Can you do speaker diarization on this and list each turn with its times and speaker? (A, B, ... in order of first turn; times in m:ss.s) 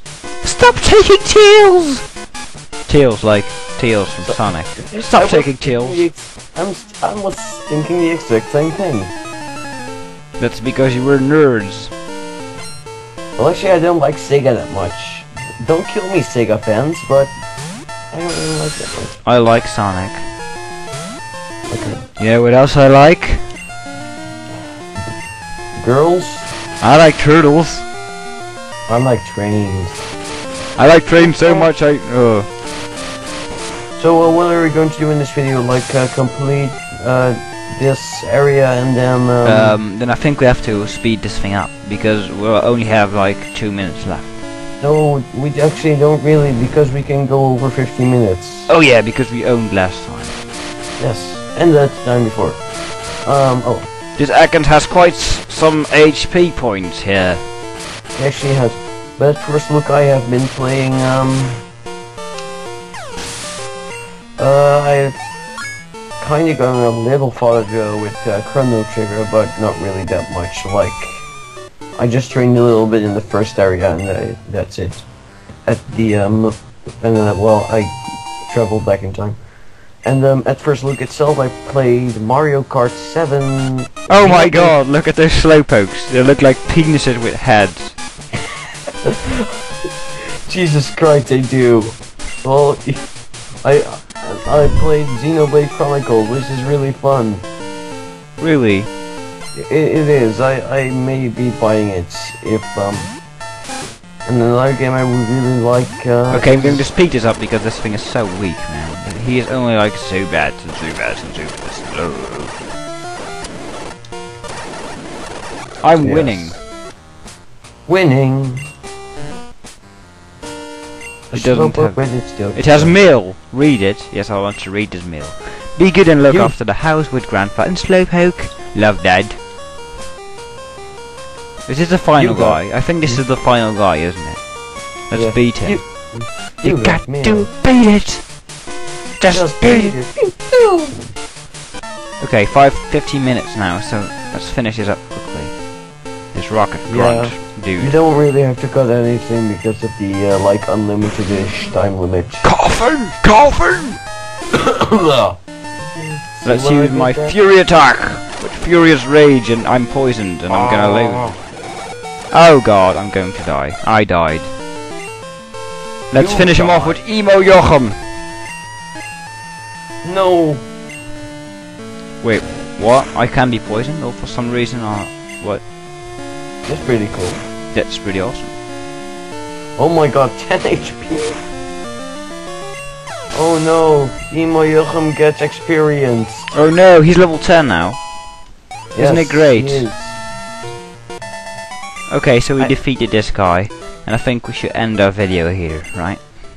0:00.4-0:02.1 A
0:02.9-0:06.0 A
0:04.2-0:09.1 B
0:10.4-0:11.9 A
0:13.4-0:17.3 B
0:18.1-0:19.2 B
0:19.2-0:20.3 A
0:21.7-0:22.0 B
0:22.2-0:23.4 A
0:25.8-0:26.5 B
0:26.8-0:27.9 A
0:28.9-0:30.0 B
0:30.8-0:32.5 A
0:31.2-0:31.7 B
0:34.0-0:39.8 B
0:39.4-0:44.4 A
0:44.8-0:48.7 B
0:48.7-0:50.4 A
0:51.0-0:52.6 B
0:53.2-0:53.9 B
0:54.2-0:57.4 A
0:58.2-1:01.6 B
1:04.4-1:05.2 B
1:06.2-1:11.3 B
1:12.0-1:15.0 B
1:15.6-1:19.4 B
1:20.0-1:24.8 B
1:24.1-1:28.0 A
1:29.0-1:29.5 B
1:30.4-1:33.1 B
1:33.6-1:37.4 B
1:38.4-1:38.9 A
1:39.5-1:43.1 B
1:44.2-1:46.8 B
1:46.3-1:52.6 A
1:55.8-1:56.6 A
1:56.0-1:56.6 B
1:57.9-1:58.7 B
2:01.3-2:03.0 B
2:01.3-2:09.4 A
2:06.3-2:06.6 B
2:11.7-2:14.5 A
2:12.2-2:13.2 B
2:15.0-2:18.2 A
2:15.1-2:17.5 B
2:19.2-2:20.0 A
2:19.3-2:20.4 B
2:22.2-2:25.6 A
2:26.3-2:27.9 A
2:26.8-2:32.5 B
2:32.4-2:34.0 A
2:34.6-2:35.4 B
2:36.0-2:37.4 B
2:36.4-2:41.4 A
2:40.5-2:41.4 B
2:42.3-2:44.5 A
2:46.1-2:48.0 A
2:46.1-2:47.0 B
2:50.0-2:50.6 B
2:52.2-2:55.6 A
2:56.6-2:57.4 B
2:57.7-2:58.5 A
2:59.8-3:01.4 B
3:03.3-3:06.5 B
3:06.5-3:08.0 A
3:08.9-3:10.2 B
3:09.0-3:09.9 A
3:12.1-3:16.2 A